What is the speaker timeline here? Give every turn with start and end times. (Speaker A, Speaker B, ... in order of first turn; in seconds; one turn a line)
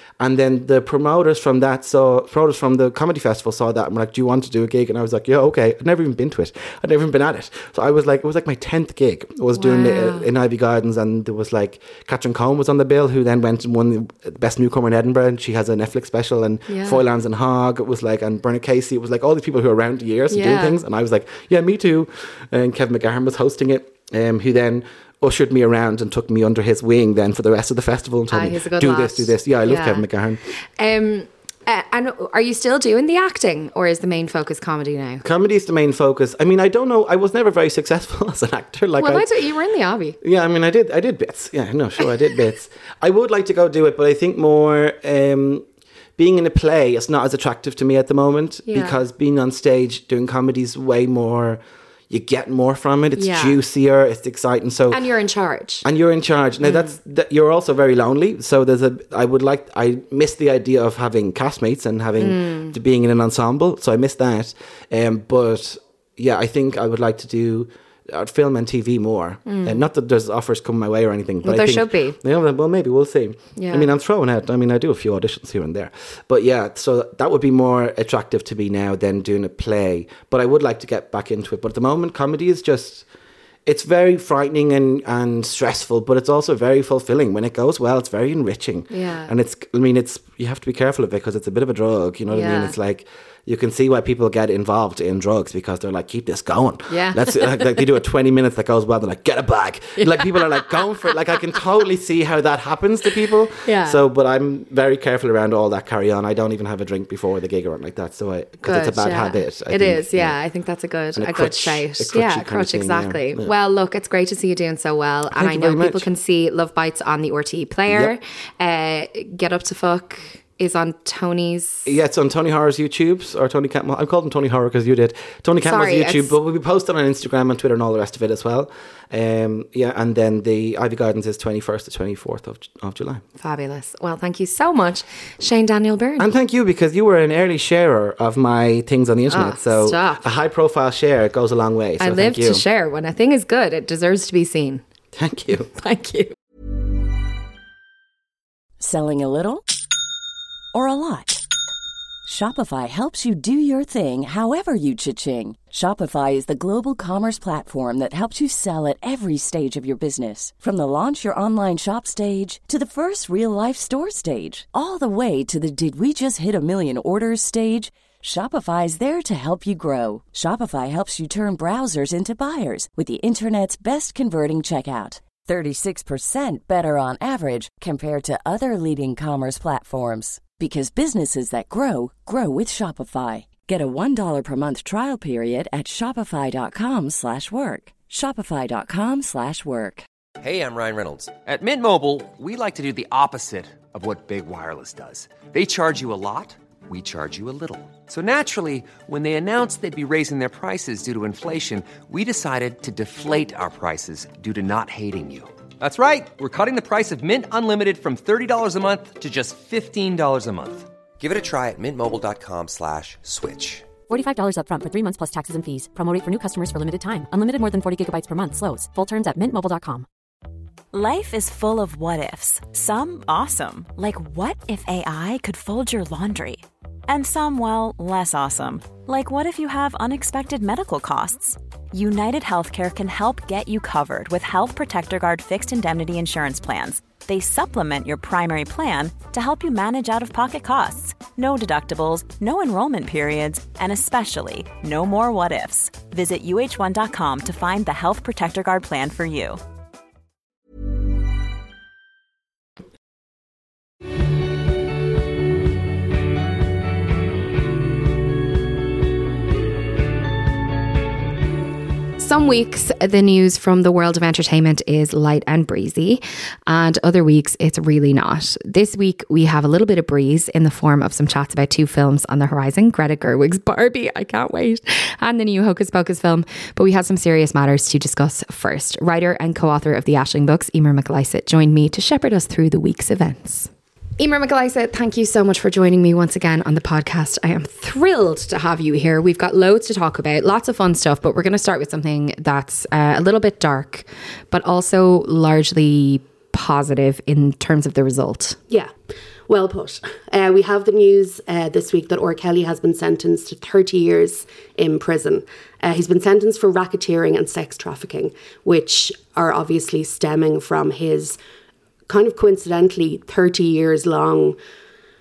Speaker A: 0.2-30.4
Speaker B: 9.5-10.3
Speaker B: 16.7-17.0
Speaker B: 20.3-20.8
Speaker B: 28.3-35.2
Speaker A: 35.2-39.3
Speaker B: 39.0-40.2
Speaker A: 40.2-45.6
Speaker A: 46.2-55.0
Speaker B: 48.7-49.0
Speaker B: 53.1-53.6
Speaker B: 54.9-55.8
Speaker A: 55.8-83.0
Speaker B: 56.6-56.9
Speaker B: 62.2-62.8
Speaker B: 69.5-69.8
Speaker B: 71.4-72.2
Speaker B: 73.5-73.9
Speaker A: 83.7-110.4
Speaker B: 88.9-89.3
Speaker B: 92.3-92.8
Speaker B: 96.9-97.8
Speaker B: 100.0-100.8
Speaker B: 103.6-104.0
Speaker B: 108.6-121.9
Speaker A: 111.1-113.5
Speaker A: 115.3-116.0
Speaker A: 121.8-133.2
Speaker B: 125.6-126.3
Speaker B: 133.4-136.3
Speaker A: 136.2-142.6
Speaker B: 139.3-140.3
Speaker B: 142.0-144.8
Speaker A: 145.2-145.7
Speaker B: 145.7-146.3
Speaker C: 148.8-149.6
Speaker C: 150.7-151.4
Speaker C: 152.2-190.0
Speaker D: 190.4-213.9
Speaker E: 214.1-220.1
Speaker F: 220.9-249.6
Speaker B: 262.2-298.6
Speaker G: 299.5-311.4
Speaker G: 312.1-314.6